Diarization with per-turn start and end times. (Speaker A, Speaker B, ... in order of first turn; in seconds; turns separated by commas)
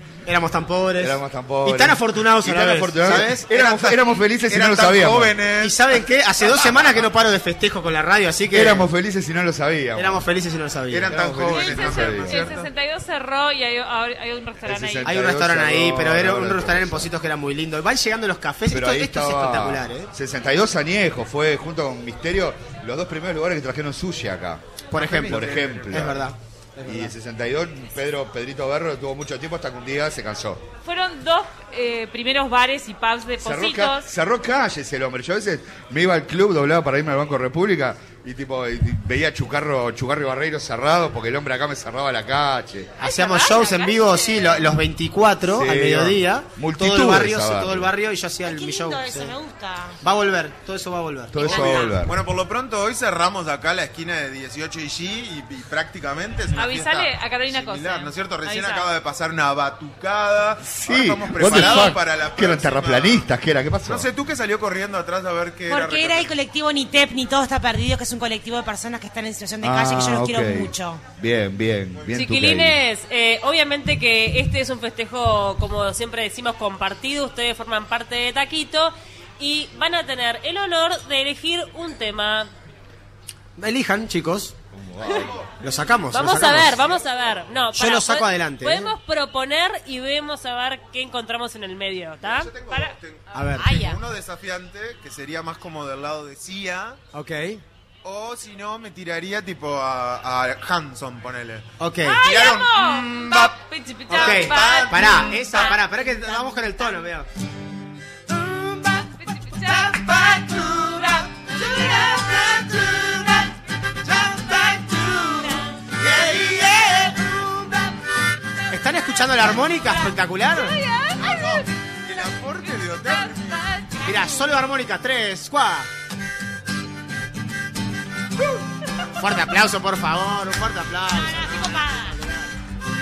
Speaker A: 0.2-4.2, Speaker B: 1.0-5.5, Speaker C: 4.2-5.9, Speaker A: 5.6-8.9, Speaker C: 6.4-6.8, Speaker B: 8.5-10.2, Speaker A: 9.9-11.2, Speaker C: 10.9-12.7, Speaker B: 11.0-12.5, Speaker D: 11.5-15.1, Speaker B: 14.6-17.1, Speaker A: 15.0-20.1, Speaker B: 18.7-26.3, Speaker A: 24.9-27.1, Speaker C: 24.9-26.1, Speaker B: 26.8-30.6, Speaker D: 30.8-34.1, Speaker B: 33.4-43.0, Speaker A: 43.0-49.4, Speaker D: 43.0-44.7, Speaker B: 45.5-47.9, Speaker E: 48.4-50.0, Speaker A: 50.0-51.5, Speaker B: 51.3-52.2, Speaker E: 51.4-51.9, Speaker C: 51.4-63.3, Speaker D: 56.5-58.9, Speaker B: 60.7-64.1, Speaker C: 63.8-66.4, Speaker E: 65.7-71.0, Speaker B: 69.6-72.8, Speaker C: 71.9-72.2, Speaker F: 72.1-82.5, Speaker A: 83.5-84.5, Speaker B: 84.7-85.4, Speaker C: 85.0-87.6, Speaker A: 85.6-86.8, Speaker F: 86.1-92.5, Speaker A: 87.7-88.9, Speaker C: 92.2-97.0, Speaker D: 92.7-93.8, Speaker A: 93.3-93.9, Speaker E: 93.6-93.9, Speaker A: 97.1-97.6, Speaker C: 98.0-101.7, Speaker A: 101.8-102.5, Speaker D: 102.0-105.8, Speaker C: 102.2-103.3, Speaker A: 103.1-103.5, Speaker A: 104.1-107.3, Speaker C: 104.1-105.4, Speaker E: 106.0-107.0, Speaker A: 108.3-113.5, Speaker D: 109.0-111.3, Speaker A: 114.0-117.9, Speaker A: 118.7-121.6, Speaker D: 119.9-121.7, Speaker C: 122.0-123.7, Speaker D: 122.8-124.3, Speaker E: 124.0-124.4, Speaker A: 124.0-125.9, Speaker A: 129.2-131.8, Speaker E: 131.1-132.2